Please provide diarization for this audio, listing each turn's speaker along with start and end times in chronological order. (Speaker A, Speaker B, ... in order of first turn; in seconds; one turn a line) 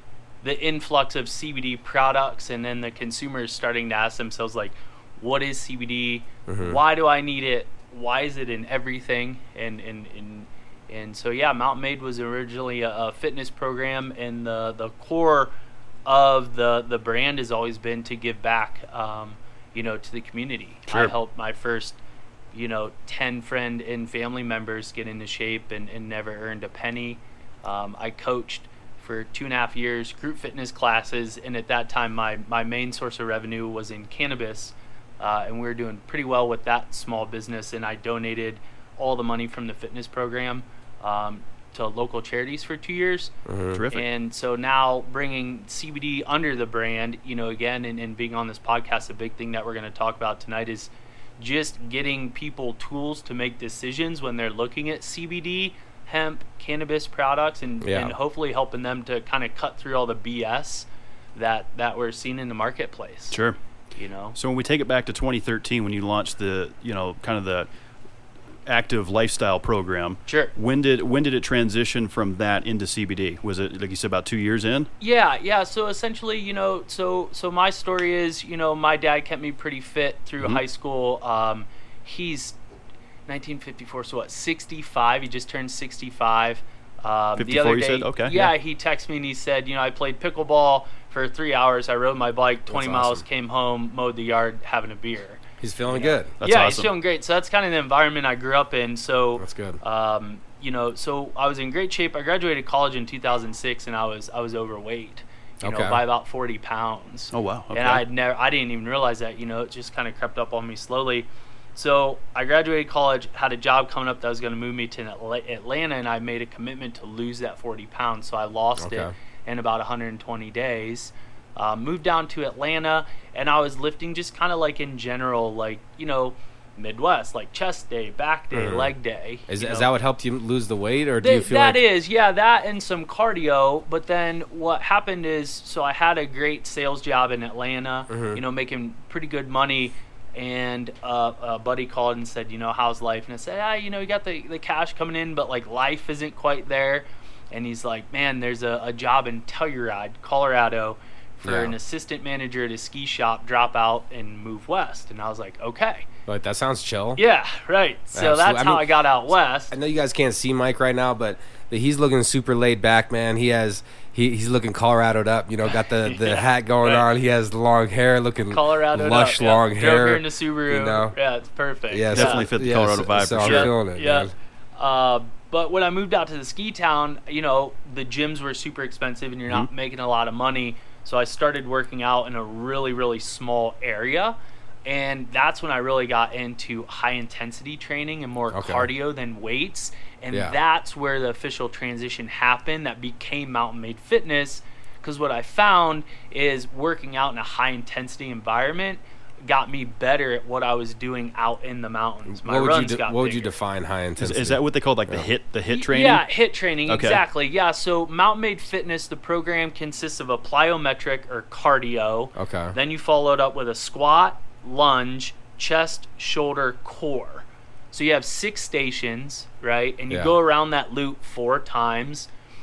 Speaker A: 0.4-15.5
Speaker B: 6.5-6.8
Speaker A: 16.1-22.0
Speaker C: 20.9-21.1
Speaker A: 22.5-43.3
Speaker B: 43.5-43.8
Speaker C: 43.7-44.0
Speaker A: 43.9-63.4
Speaker B: 57.8-58.2
Speaker C: 63.3-63.6
Speaker A: 64.0-64.4
Speaker C: 64.3-67.7
Speaker C: 68.7-74.9
Speaker A: 75.0-82.5
Speaker A: 83.3-129.9
Speaker C: 87.4-88.5
Speaker B: 92.7-93.2
Speaker B: 95.6-96.3
Speaker C: 96.4-96.9
Speaker B: 99.4-99.8
Speaker B: 105.6-106.0
Speaker C: 107.3-108.0
Speaker B: 118.8-119.1
Speaker B: 128.5-128.9
Speaker B: 129.5-131.8
Speaker A: 131.2-156.1
Speaker B: 138.1-138.4
Speaker B: 151.4-151.8
Speaker B: 156.3-157.2
Speaker A: 157.2-159.7
Speaker B: 158.1-158.9
Speaker B: 159.7-171.2
Speaker A: 166.0-167.0
Speaker A: 168.5-172.5
Speaker B: 171.9-174.3
Speaker C: 172.1-173.7
Speaker A: 173.4-203.5
Speaker B: 188.5-188.9
Speaker B: 202.3-205.3
Speaker C: 204.2-206.3
Speaker A: 205.7-222.3
Speaker C: 206.9-207.2
Speaker B: 212.4-212.8
Speaker B: 220.1-220.4